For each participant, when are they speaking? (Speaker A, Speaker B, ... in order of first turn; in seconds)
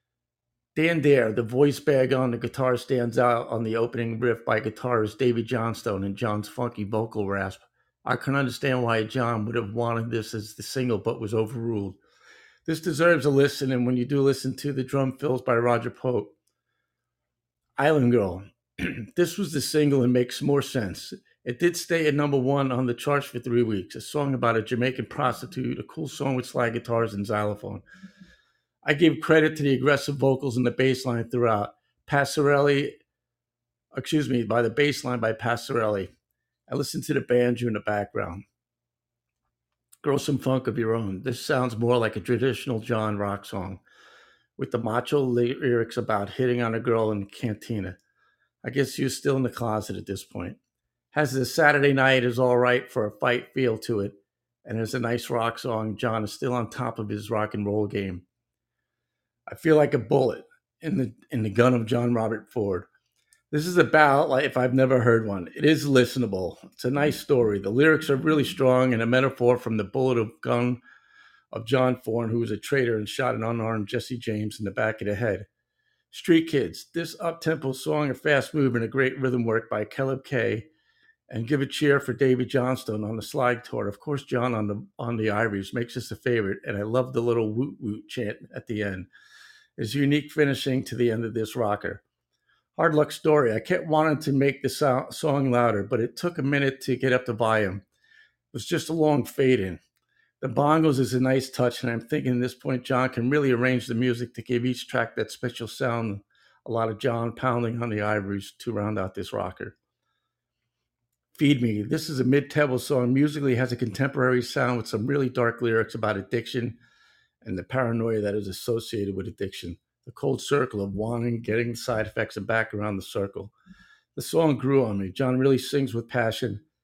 Speaker A: 0.7-12.0, 12.7-16.3, 17.8-27.8, 28.8-32.9, 33.9-36.1, 36.7-38.4, 40.0-43.8, 44.6-48.0, 48.6-50.6, 51.1-58.2, 59.5-62.9, 63.5-70.8, 71.5-75.5, 76.1-80.7, 81.3-89.1, 89.8-92.0, 92.8-97.8, 98.5-99.8, 100.4-109.7, 111.3-116.8, 117.4-123.5, 124.1-126.6